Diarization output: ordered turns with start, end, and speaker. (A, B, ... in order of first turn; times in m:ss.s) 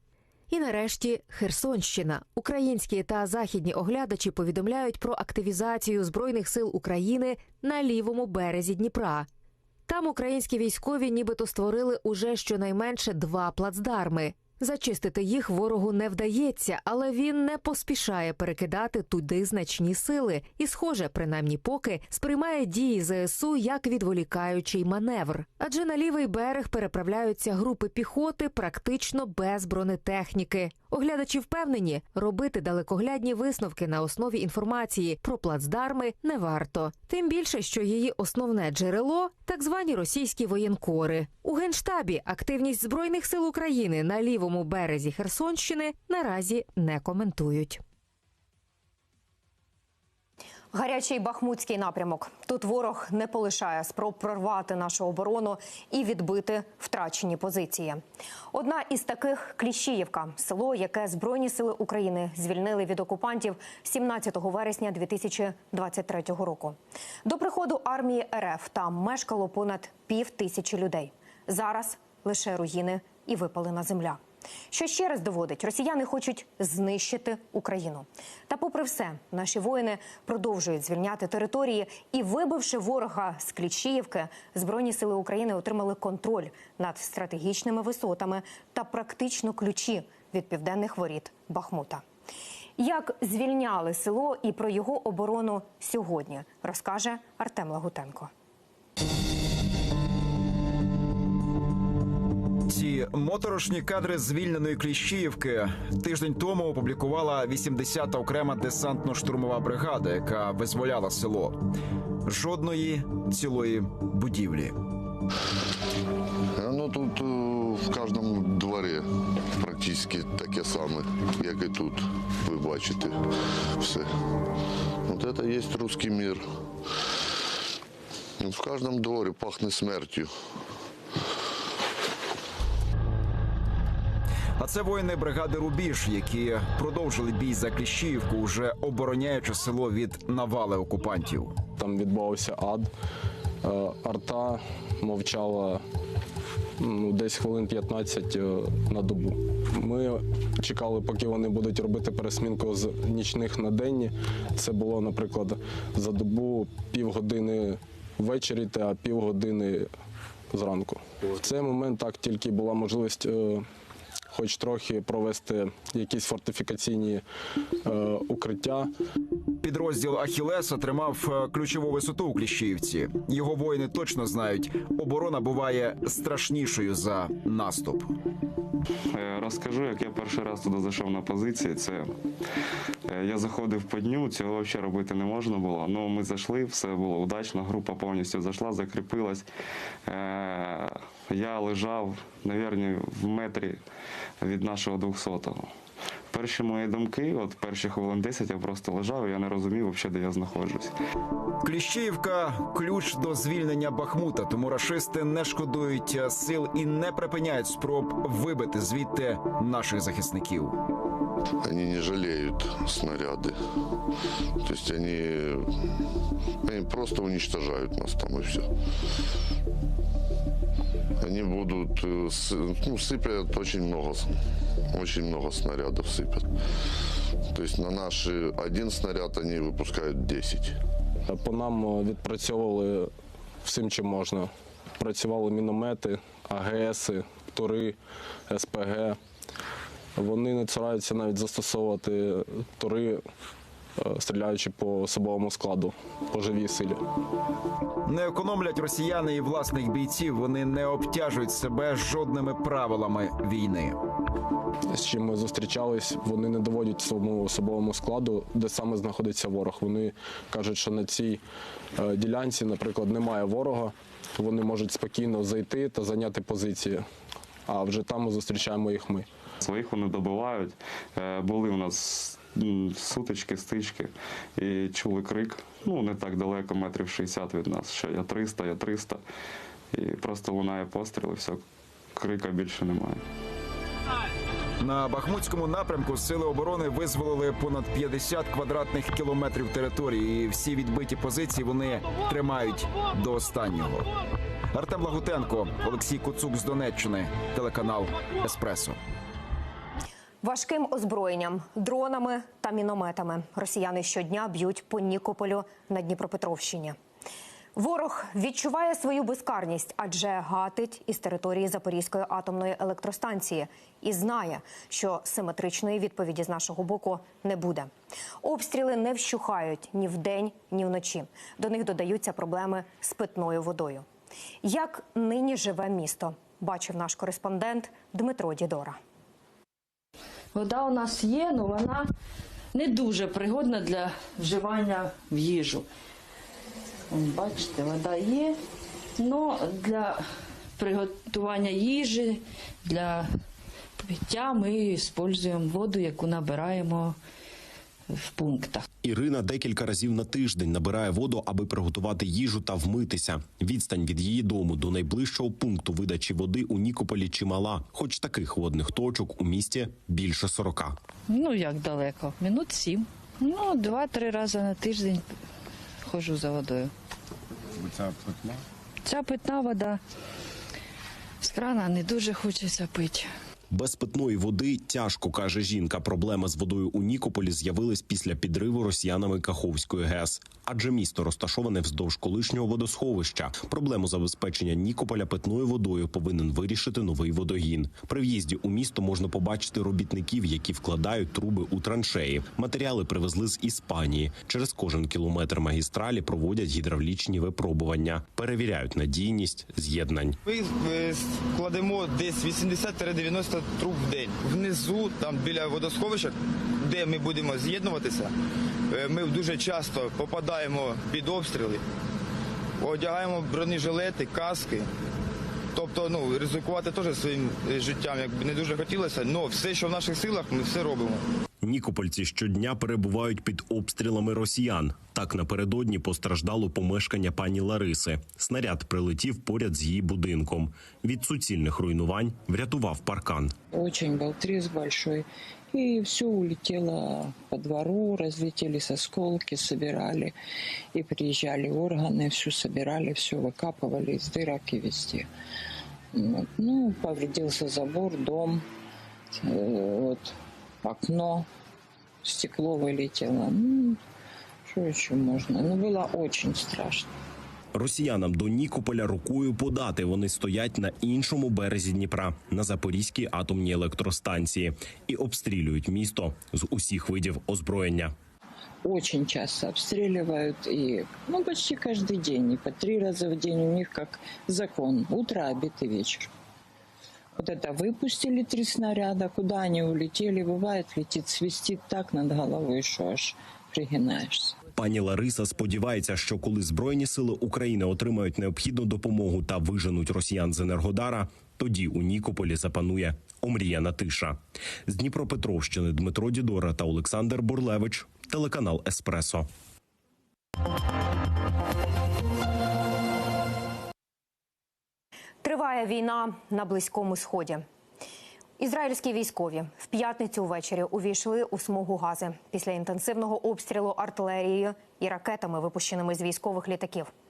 0:00.5-0:09.3 A
0:09.9-0:47.8 A
0:50.7-1:14.2 B
1:14.7-1:32.0 B
1:32.8-1:38.3 B
1:42.7-1:51.6 C
1:52.2-1:54.8 C
1:56.6-1:59.1 D
1:59.6-2:03.2 D
2:03.8-2:04.1 D
2:05.1-2:06.4 D
2:08.4-2:10.3 D
2:14.6-2:21.6 C
2:21.8-2:22.9 E
2:23.6-2:25.8 E
2:26.8-2:39.9 E
2:40.5-2:43.7 E
2:44.3-2:47.2 E
2:47.8-2:48.9 E
2:49.6-2:58.1 C
2:59.1-3:02.1 F
3:03.1-3:09.5 F
3:10.1-3:13.8 F
3:14.4-3:15.7 F
3:16.3-3:21.0 F
3:21.6-3:30.8 C
3:31.6-3:33.6 D
3:34.6-3:35.7 D
3:36.6-3:38.7 D
3:41.2-3:44.3 D
3:44.9-3:46.5 D
3:47.5-3:50.8 D
3:51.3-3:53.1 E
3:53.6-3:58.0 E
3:58.5-3:59.2 E
4:00.2-4:03.2 E
4:04.0-4:07.0 E
4:08.1-4:14.0 C
4:14.9-4:21.4 E
4:22.0-4:27.1 E
4:27.7-4:29.3 E
4:29.6-4:39.2 F
4:39.9-4:41.6 F
4:42.2-4:43.2 F
4:44.8-4:54.1 C
4:54.7-4:59.0 C
5:00.4-5:07.0 B
5:07.8-5:17.9 B
5:18.4-5:24.1 B
5:24.6-5:29.0 B
5:30.5-5:32.1 G
5:32.7-5:35.9 G
5:37.1-5:38.6 G
5:39.2-5:40.2 G
5:40.8-5:43.3 G
5:44.0-5:47.2 G
5:48.1-5:48.8 G
5:49.0-6:01.0 H
6:01.3-6:05.3 G
6:06.1-6:06.9 G
6:07.8-6:08.4 C
6:09.0-6:10.0 G
6:11.4-6:13.3 G
6:13.7-6:40.4 H
6:40.4-6:48.3 I
6:48.9-6:51.8 I
6:52.8-6:54.9 I
6:55.7-7:01.2 I
7:01.6-7:13.5 H
7:13.7-7:20.3 J
7:20.9-7:25.3 J
7:26.1-7:28.6 J
7:29.3-7:31.5 J
7:32.2-7:34.0 J
7:34.7-7:37.1 J
7:37.7-7:48.1 H
7:48.8-7:56.3 J
7:57.4-8:04.6 J
8:04.8-8:19.5 H
8:25.4-8:27.6 B
8:28.6-8:37.1 B